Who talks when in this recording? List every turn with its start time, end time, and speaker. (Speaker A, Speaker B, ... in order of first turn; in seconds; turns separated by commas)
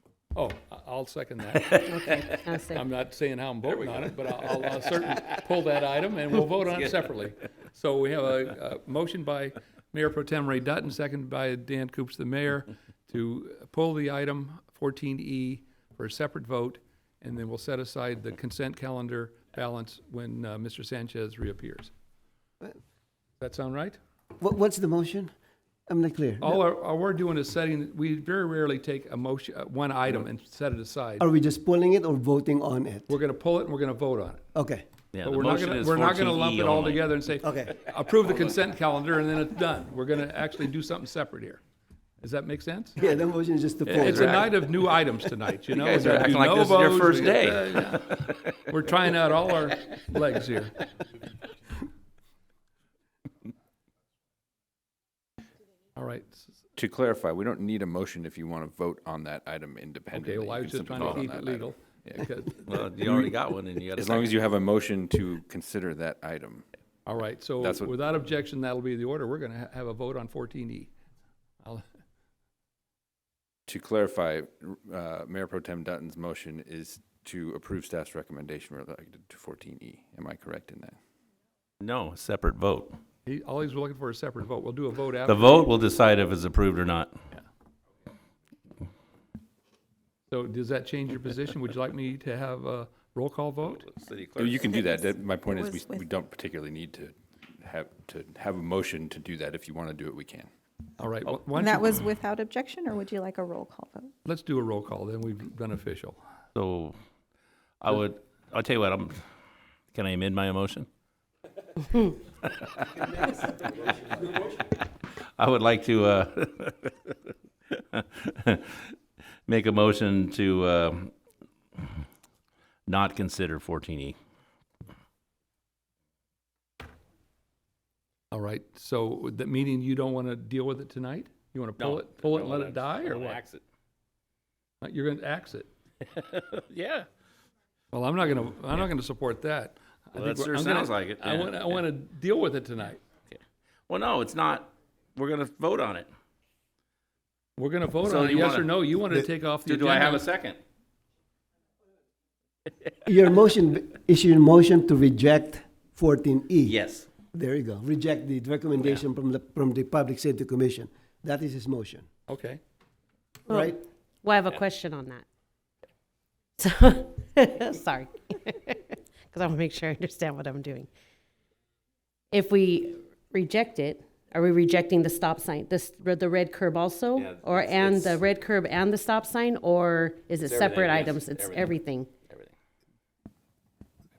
Speaker A: 0.3-1.9, Speaker B: 1.7-2.4, Speaker C: 1.9-2.9, Speaker A: 2.7-21.9, Speaker B: 6.7-7.0, Speaker A: 23.4-24.0, Speaker D: 24.4-25.3, Speaker D: 25.9-26.6, Speaker A: 26.4-31.3, Speaker D: 31.2-33.1, Speaker A: 33.1-34.5, Speaker D: 34.5-34.9, Speaker B: 35.1-37.3, Speaker A: 35.2-41.6, Speaker D: 37.4-37.7, Speaker A: 42.2-43.0, Speaker D: 43.0-44.5, Speaker B: 43.9-44.7, Speaker A: 44.0-48.1, Speaker B: 45.7-48.5, Speaker A: 48.7-50.9, Speaker A: 56.0-56.5, Speaker E: 56.8-62.3, Speaker A: 60.1-62.8, Speaker B: 61.0-61.2, Speaker B: 62.6-64.4, Speaker E: 63.0-63.3, Speaker E: 63.9-66.7, Speaker A: 67.1-70.9, Speaker E: 67.6-68.0, Speaker E: 73.7-81.0, Speaker B: 81.8-83.0, Speaker A: 83.3-85.7, Speaker B: 85.2-87.1, Speaker A: 90.3-93.8, Speaker B: 93.6-94.7, Speaker E: 94.4-100.5, Speaker F: 94.8-96.1, Speaker A: 101.0-102.1, Speaker F: 101.5-104.1, Speaker A: 104.2-106.2, Speaker B: 106.5-107.0, Speaker B: 107.8-109.2, Speaker B: 109.9-110.9, Speaker B: 112.4-113.3, Speaker D: 113.0-114.5, Speaker B: 115.4-117.2, Speaker B: 117.7-118.9, Speaker B: 119.5-121.1, Speaker B: 122.9-124.2, Speaker A: 128.3-133.4, Speaker B: 131.8-133.6, Speaker A: 134.8-135.7, Speaker B: 136.1-137.1, Speaker A: 137.9-143.0, Speaker B: 140.2-141.8, Speaker B: 143.3-146.1, Speaker A: 147.6-150.3, Speaker B: 148.0-148.8, Speaker B: 149.7-150.6, Speaker D: 153.1-156.8, Speaker B: 156.7-157.1, Speaker D: 157.3-162.1, Speaker A: 162.3-162.6, Speaker D: 163.5-163.8, Speaker C: 164.2-165.2, Speaker C: 166.6-170.9, Speaker C: 172.3-182.1, Speaker B: 177.2-178.2, Speaker B: 180.4-182.5